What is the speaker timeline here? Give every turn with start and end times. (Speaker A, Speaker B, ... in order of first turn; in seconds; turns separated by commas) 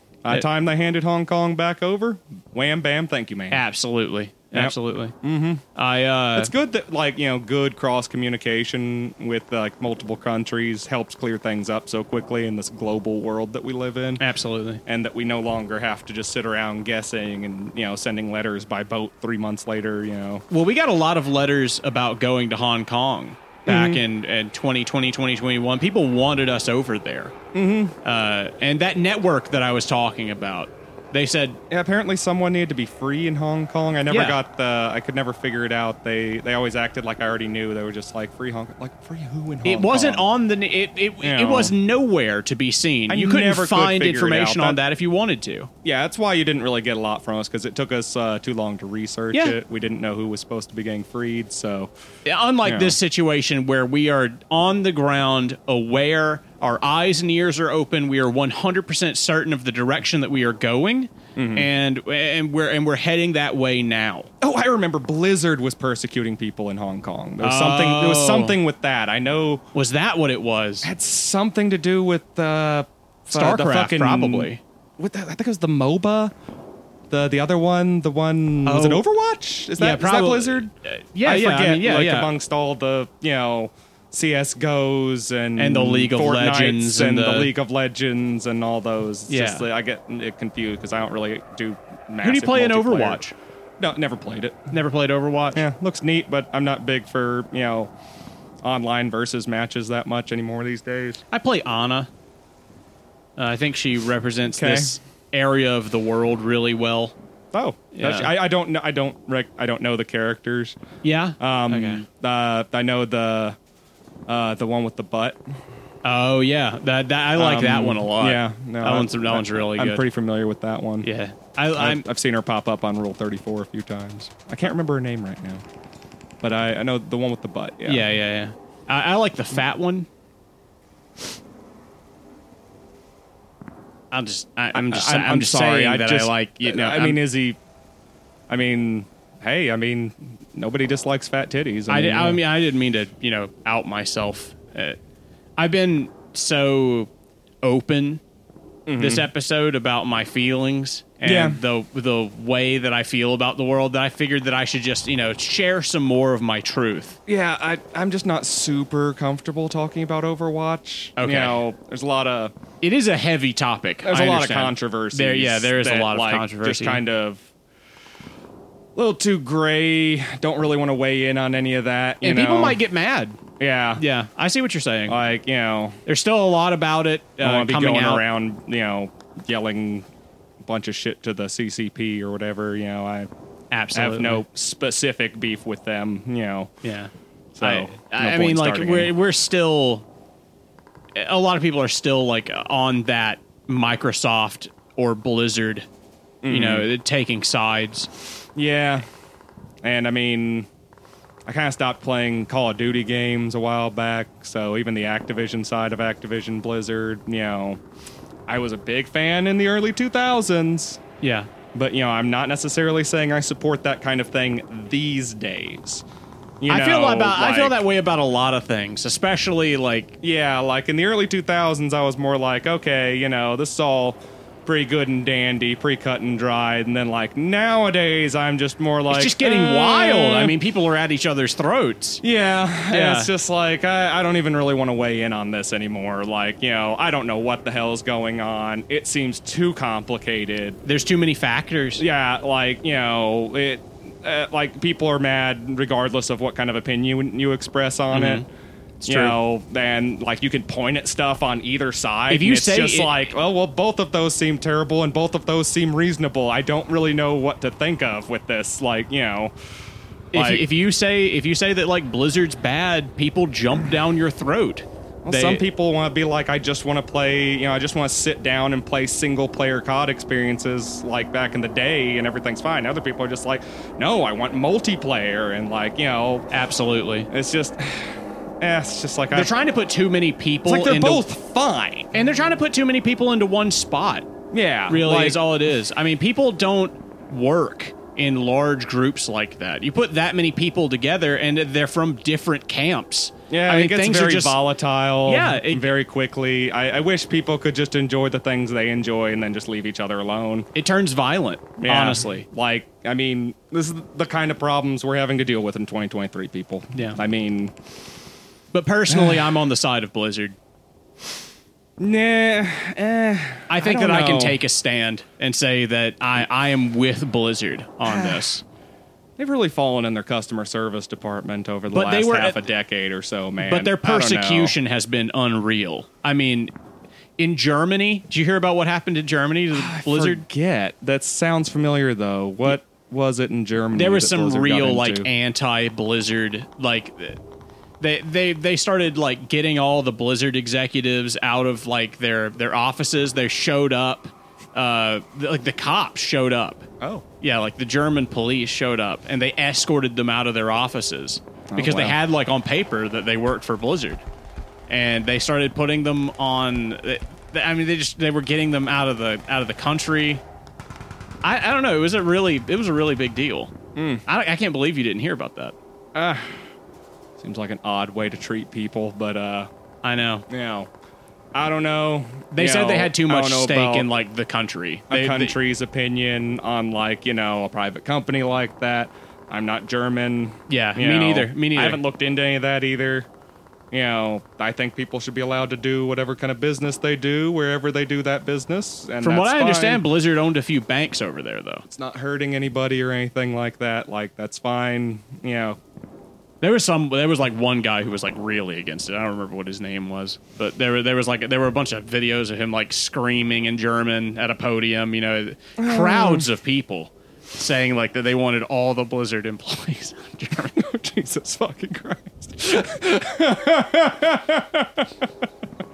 Speaker A: 0.2-3.6, Speaker B: 3.5-5.1, Speaker A: 4.5-5.6, Speaker B: 5.7-6.5, Speaker A: 6.3-14.2, Speaker B: 14.2-14.8, Speaker A: 14.8-20.4, Speaker B: 20.5-27.3, Speaker A: 23.6-24.0, Speaker A: 27.5-27.9, Speaker B: 28.0-31.6, Speaker A: 31.7-40.2, Speaker B: 34.1-34.4, Speaker B: 39.6-45.7, Speaker A: 41.2-41.7, Speaker A: 43.1-44.8, Speaker A: 45.8-51.9, Speaker B: 52.2-64.3, Speaker A: 52.6-53.0, Speaker A: 61.4-61.7, Speaker A: 64.4-69.6, Speaker B: 67.4-68.6, Speaker B: 69.7-70.9, Speaker A: 70.8-76.3, Speaker B: 73.3-74.6, Speaker A: 77.1-80.7, Speaker B: 78.7-79.0, Speaker B: 79.8-82.3, Speaker A: 81.2-93.2, Speaker B: 85.6-87.5, Speaker B: 89.3-89.7, Speaker B: 92.2-93.3, Speaker A: 93.8-94.7, Speaker B: 94.7-95.6, Speaker A: 95.5-97.9, Speaker A: 98.6-101.2, Speaker B: 101.3-102.1, Speaker B: 103.4-107.1, Speaker A: 104.5-104.9, Speaker A: 107.5-110.8, Speaker B: 107.9-108.3, Speaker B: 111.0-112.0, Speaker A: 111.4-113.6, Speaker A: 114.3-115.4, Speaker B: 116.0-120.0, Speaker A: 117.4-121.1, Speaker B: 121.0-122.1, Speaker A: 121.8-125.6, Speaker A: 126.4-128.1, Speaker B: 127.8-130.1, Speaker B: 134.1-137.2, Speaker A: 134.7-137.6, Speaker A: 138.5-142.4, Speaker B: 141.9-145.0, Speaker B: 145.6-147.1, Speaker B: 147.6-148.2, Speaker A: 148.9-149.2, Speaker B: 149.0-157.2, Speaker A: 151.2-151.6, Speaker A: 157.3-162.5, Speaker B: 161.2-161.6, Speaker B: 162.8-167.0, Speaker A: 164.0-167.4, Speaker A: 168.9-172.8, Speaker B: 172.2-173.4, Speaker A: 173.6-174.0, Speaker B: 174.0-175.2, Speaker A: 175.1-176.0, Speaker B: 176.1-178.2, Speaker A: 177.4-180.1, Speaker A: 180.6-183.3, Speaker B: 183.7-184.4, Speaker A: 183.9-186.7, Speaker B: 186.8-190.0, Speaker A: 187.6-189.1, Speaker B: 191.1-195.9, Speaker A: 196.4-196.9, Speaker B: 196.5-198.1, Speaker A: 198.6-199.0, Speaker A: 199.8-200.7, Speaker A: 201.5-207.8, Speaker A: 208.5-211.0, Speaker B: 211.2-211.5, Speaker A: 211.7-216.0, Speaker A: 216.6-217.8, Speaker B: 216.7-220.2, Speaker A: 220.2-230.5, Speaker B: 229.1-232.2, Speaker A: 232.2-240.8, Speaker B: 232.9-233.3, Speaker B: 240.8-242.0, Speaker A: 242.0-248.4, Speaker B: 248.1-248.4, Speaker B: 249.0-249.3, Speaker A: 249.1-259.5, Speaker B: 252.3-253.3, Speaker A: 260.3-260.7, Speaker B: 260.3-265.6, Speaker A: 265.2-276.5, Speaker B: 276.5-277.3, Speaker A: 277.3-279.5, Speaker B: 279.3-281.2, Speaker A: 280.6-282.1, Speaker B: 282.1-284.3, Speaker A: 284.5-285.4, Speaker B: 284.9-294.6, Speaker A: 293.5-300.7, Speaker B: 295.2-295.9, Speaker B: 300.7-302.4, Speaker A: 301.8-307.7, Speaker B: 308.7-310.6, Speaker A: 309.1-309.5, Speaker A: 312.0-314.6, Speaker B: 313.7-318.6, Speaker A: 318.0-318.5, Speaker A: 319.4-324.7, Speaker B: 321.9-322.6, Speaker B: 323.6-326.7, Speaker B: 327.4-330.4, Speaker A: 329.7-335.3, Speaker B: 333.9-337.4, Speaker B: 338.0-346.9, Speaker B: 347.4-354.2, Speaker A: 351.7-352.1, Speaker B: 354.9-360.4, Speaker B: 361.4-363.7, Speaker A: 363.9-364.2, Speaker B: 364.2-365.7, Speaker A: 366.1-366.6, Speaker A: 367.4-369.7, Speaker B: 370.0-370.5, Speaker A: 370.5-370.9, Speaker A: 371.5-374.1, Speaker B: 372.5-375.5, Speaker A: 375.1-383.3, Speaker B: 380.7-382.0, Speaker A: 383.9-390.0, Speaker B: 389.2-391.9, Speaker A: 391.9-395.8, Speaker B: 396.6-410.8, Speaker A: 405.8-406.5, Speaker A: 410.8-415.2